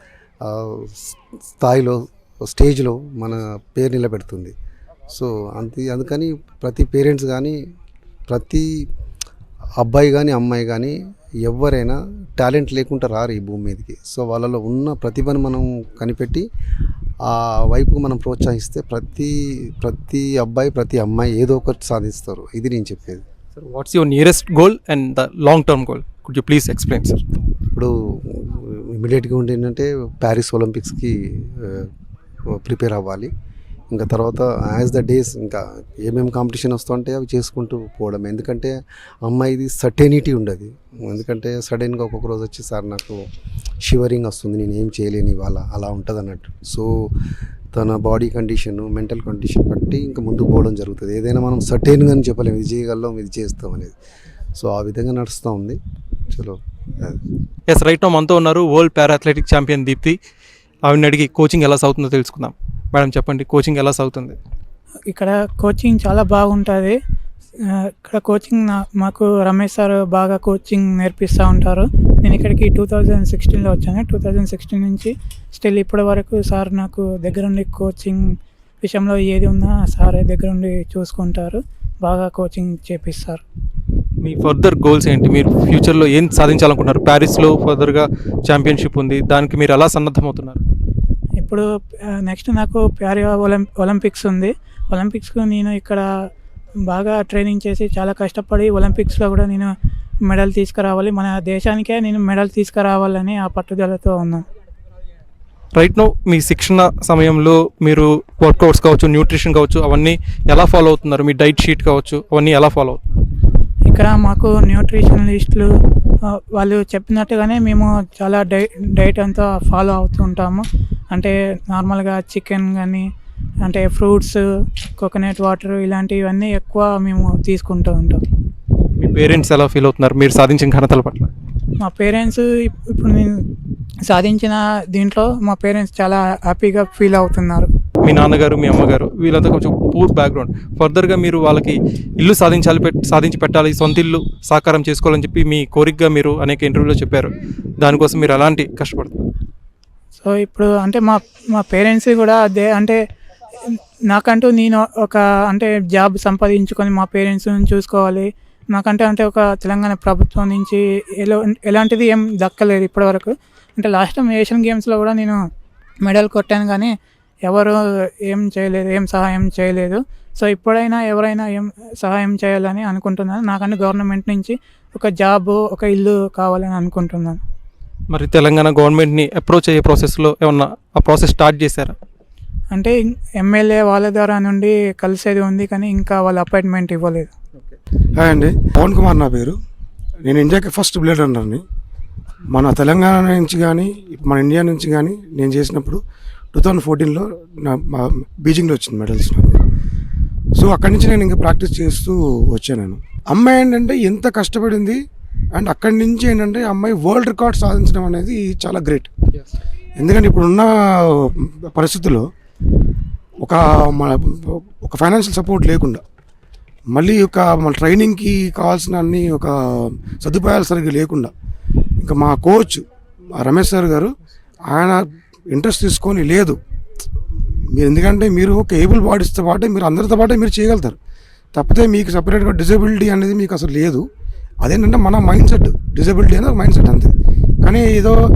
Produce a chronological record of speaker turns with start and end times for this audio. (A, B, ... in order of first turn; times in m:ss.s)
0:00.4-0:04.5 A
0:05.1-0:07.6 A
0:08.3-0:08.8 A
0:09.8-0:16.4 A
0:17.2-0:23.2 A
0:23.6-0:27.2 B
0:27.7-0:31.9 A
0:32.5-0:33.3 A
0:33.9-0:43.3 A
0:43.8-0:47.2 A
0:47.7-0:53.9 A
0:54.5-0:57.2 A
0:57.7-1:00.2 B
1:00.8-1:04.4 B
1:05.1-1:07.0 C
1:07.6-1:18.2 C
1:18.8-1:23.4 C
1:24.2-1:30.6 B
1:31.4-1:31.6 C
1:32.2-1:36.0 C
1:36.9-1:39.7 C
1:40.2-1:44.4 C
1:45.7-1:53.0 B
1:53.9-1:55.7 C
1:56.3-2:03.0 C
2:03.6-2:04.4 C
2:05.0-2:08.2 C
2:09.0-2:11.3 B
2:11.8-2:13.4 C
2:14.1-2:17.7 C
2:18.0-2:29.2 B
2:30.2-2:33.0 C
2:33.6-2:45.4 C
2:46.0-2:46.9 C
2:47.4-2:57.4 C
2:58.1-3:01.9 B
3:02.7-3:07.3 C
3:08.1-3:09.6 D
3:10.2-3:11.6 D
3:12.5-3:16.0 D
3:16.5-3:19.6 D
3:20.5-3:25.0 D
3:25.5-3:29.1 D
3:30.0-3:32.2 D
3:33.4-3:36.0 D
3:36.9-3:41.3 D
3:42.0-3:44.1 D
3:44.7-3:46.6 D
3:47.4-3:51.0 D
3:51.5-3:54.0 D
3:54.6-3:58.2 D